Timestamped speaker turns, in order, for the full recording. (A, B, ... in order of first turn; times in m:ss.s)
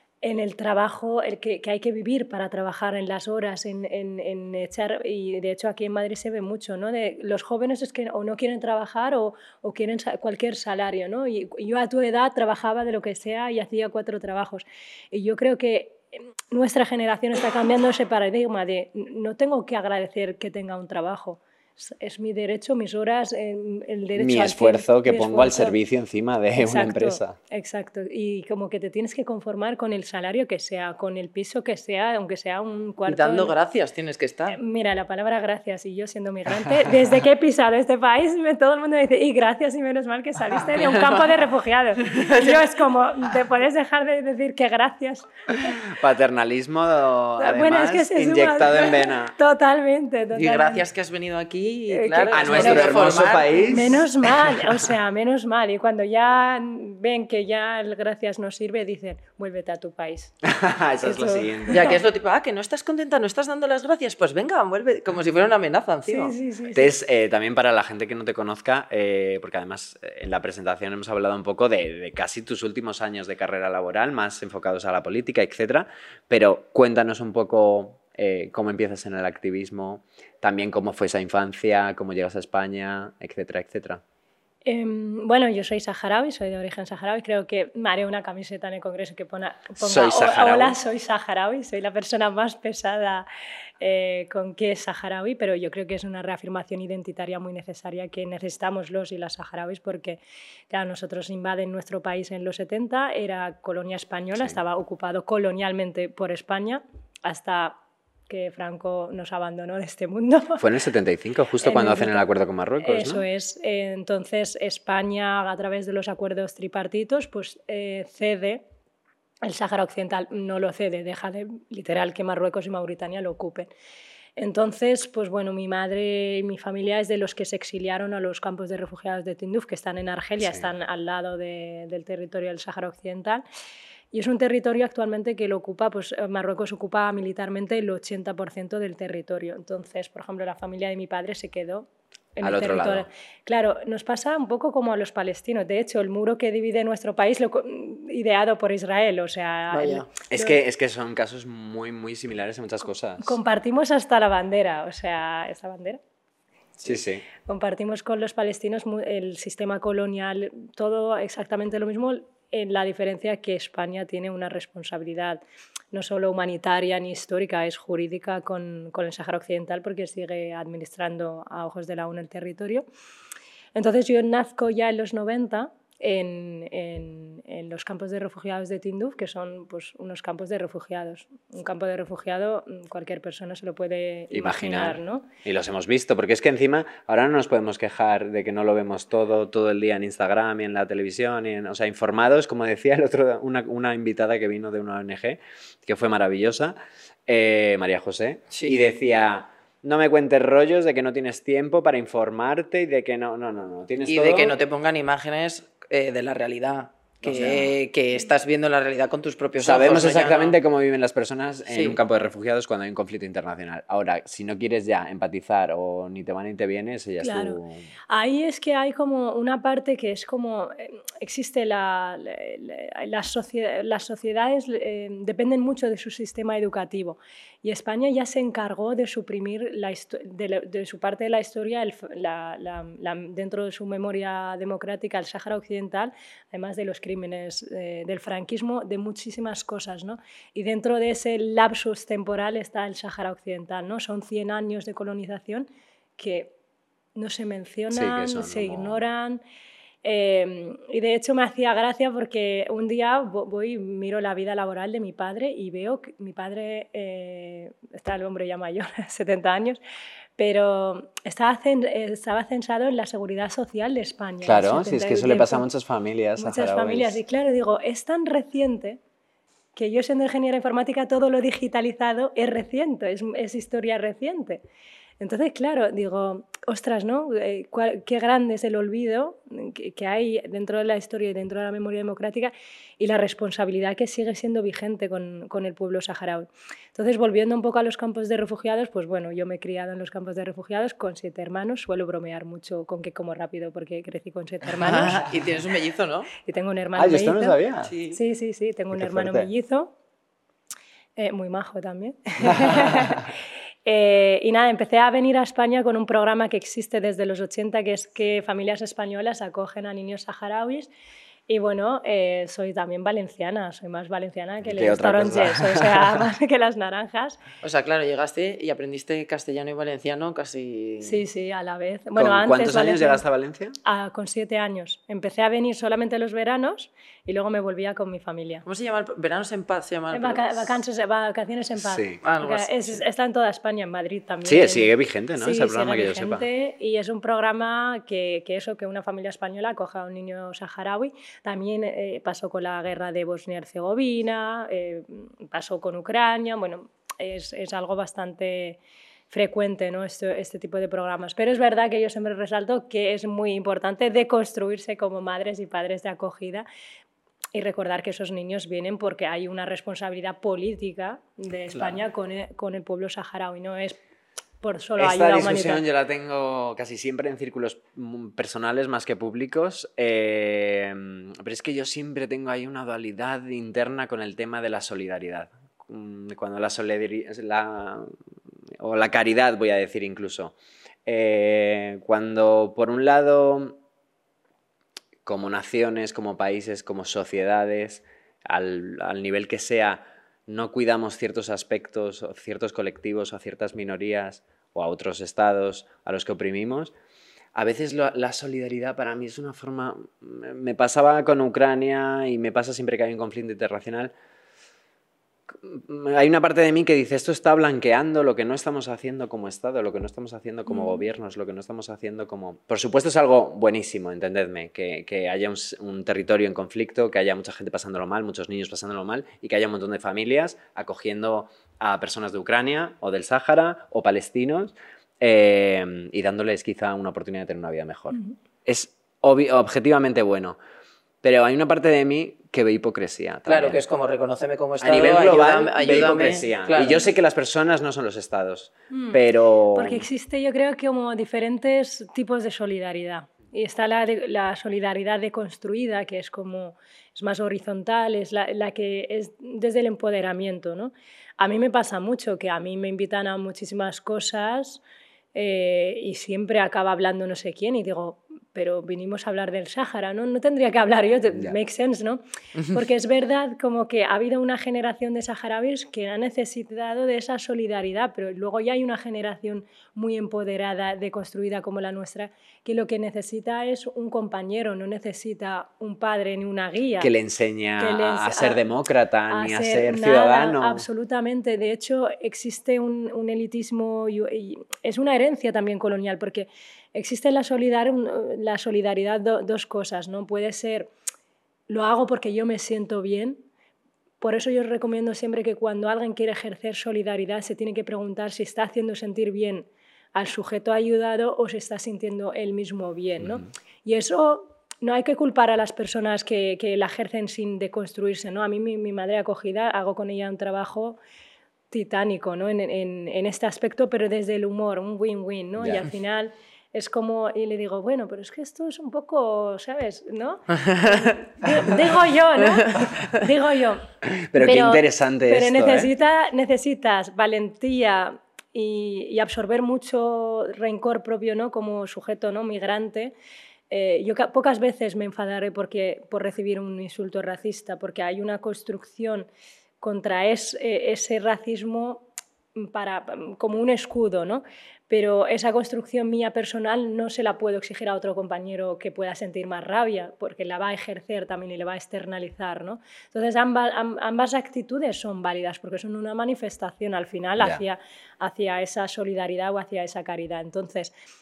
0:00.2-0:25.8 A
0:24.2-0:27.4 B
0:26.6-0:33.5 A
0:33.1-0:34.6 C
0:34.5-0:45.3 A
0:42.2-0:42.6 C
0:45.9-0:49.3 B
0:47.4-0:50.8 A
0:50.3-0:53.6 C
0:51.9-0:53.0 A
0:52.3-0:54.1 B
0:53.7-1:00.3 A
1:00.4-1:01.9 B
1:01.0-1:01.9 A
1:01.7-1:06.3 C
1:06.1-1:06.9 A
1:06.7-1:24.0 B
1:24.6-1:33.3 A
1:29.8-1:30.8 B
1:33.8-1:47.8 A
1:48.3-1:50.6 A
1:50.6-1:53.2 B
1:51.6-1:52.2 A
1:52.8-1:58.6 A
1:59.4-2:03.7 A
2:04.4-2:13.4 A
2:10.4-2:10.7 B
2:14.1-2:30.6 A
2:22.4-2:23.0 B
2:29.7-2:30.0 C
2:30.3-2:33.4 B
2:33.2-2:36.0 A
2:36.8-2:37.2 B
2:37.4-2:45.4 A
2:45.9-2:52.8 A
2:53.7-3:05.3 A
3:04.3-3:16.7 B
3:17.3-3:24.6 B
3:18.5-3:18.8 C
3:24.0-3:30.6 C
3:27.2-3:27.7 B
3:29.6-3:37.9 B
3:31.7-3:32.0 C
3:37.2-3:37.6 A
3:38.1-4:05.7 A
4:06.2-4:06.5 A
4:07.2-4:09.4 A
4:07.9-4:09.0 B
4:10.0-4:19.8 A
4:20.4-4:25.7 A
4:24.4-4:27.2 B
4:26.4-4:29.0 A
4:29.8-4:34.6 A
4:35.2-4:55.2 A
4:54.8-4:56.3 C
4:56.4-4:57.6 A
4:57.0-4:57.9 B
4:57.9-4:58.2 C
4:58.1-4:59.9 A
4:58.9-4:59.5 B
5:01.2-5:03.3 A
5:02.5-5:02.8 B
5:03.8-5:10.9 A
5:11.5-5:17.4 A
5:14.6-5:16.1 B
5:17.6-5:21.2 C
5:21.0-5:23.2 A
5:22.2-5:23.8 B
5:23.8-5:28.6 A
5:28.6-5:30.8 C
5:30.1-5:48.8 A
5:31.8-5:32.2 B
5:32.2-5:33.0 C
5:34.4-5:36.4 B
5:49.3-5:56.6 A
5:57.5-6:04.0 A
6:04.6-6:05.8 A
6:05.0-6:18.1 B
6:18.8-6:20.5 B
6:21.0-6:23.8 B
6:25.2-6:36.9 B
6:37.5-6:44.1 B
6:45.5-7:10.6 B
6:50.7-6:51.0 A
7:11.2-7:13.8 B
7:13.4-7:17.0 C
7:14.8-7:20.0 B
7:18.9-7:19.2 A
7:19.7-7:34.8 A
7:35.3-7:57.1 A
7:57.0-8:00.8 B
7:57.8-7:58.6 A
7:59.3-8:10.9 A
8:11.7-8:13.4 A
8:14.2-8:31.0 A
8:23.2-8:23.5 B
8:31.7-8:53.1 A
8:40.7-8:41.1 C
8:44.1-8:45.9 B
8:53.7-8:59.3 A
8:59.8-9:20.9 A